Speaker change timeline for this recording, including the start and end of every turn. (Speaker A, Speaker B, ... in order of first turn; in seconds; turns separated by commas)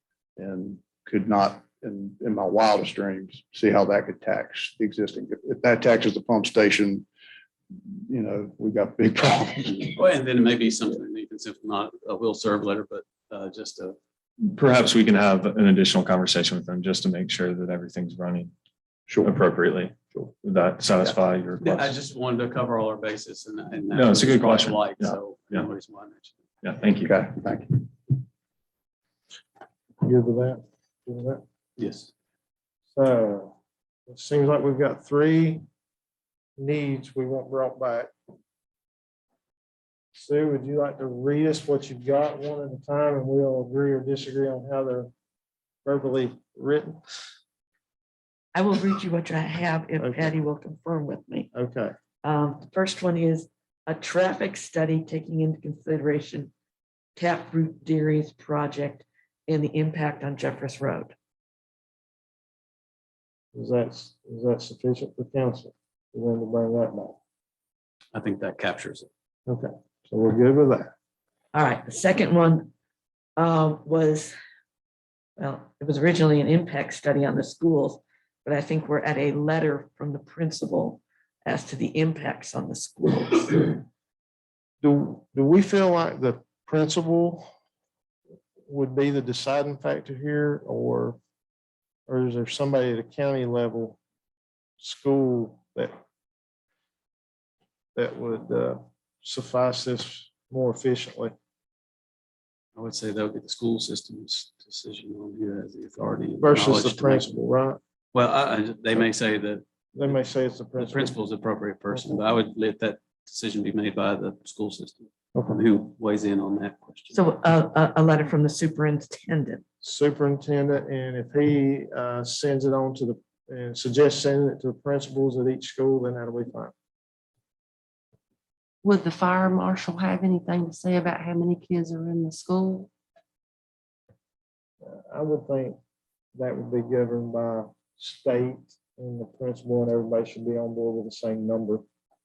Speaker A: 0.4-7.1, Speaker A: 7.9-10.0, Speaker B: 10.0-14.0, Speaker C: 14.5-18.5, Speaker A: 19.1-19.4, Speaker C: 19.2-22.0, Speaker B: 21.6-26.4, Speaker C: 23.9-25.6, Speaker C: 26.6-27.1, Speaker A: 27.0-28.2, Speaker D: 30.0-31.4, Speaker B: 31.8-32.1, Speaker D: 32.9-33.5, Speaker D: 34.1-35.6, Speaker D: 36.6-38.1, Speaker D: 40.1-45.1, Speaker D: 45.8-47.0, Speaker E: 48.5-51.5, Speaker D: 50.0-50.3, Speaker D: 51.5-51.9, Speaker E: 52.2-56.5, Speaker E: 57.2-61.1, Speaker D: 63.5-67.2, Speaker B: 68.1-69.1, Speaker D: 69.5-70.9, Speaker E: 71.5-72.7, Speaker E: 73.4-74.3, Speaker E: 75.4-83.8, Speaker D: 84.8-87.5, Speaker D: 88.7-91.2, Speaker D: 92.1-94.0, Speaker D: 94.8-96.0, Speaker D: 98.0-101.3, Speaker B: 102.8-107.4, Speaker D: 106.4-107.8, Speaker B: 108.1-110.2, Speaker D: 109.9-111.1, Speaker B: 110.8-117.2, Speaker D: 115.3-115.6, Speaker E: 117.1-119.6, Speaker D: 119.8-126.7, Speaker F: 128.8-132.9, Speaker D: 134.8-135.8, Speaker D: 136.3-141.8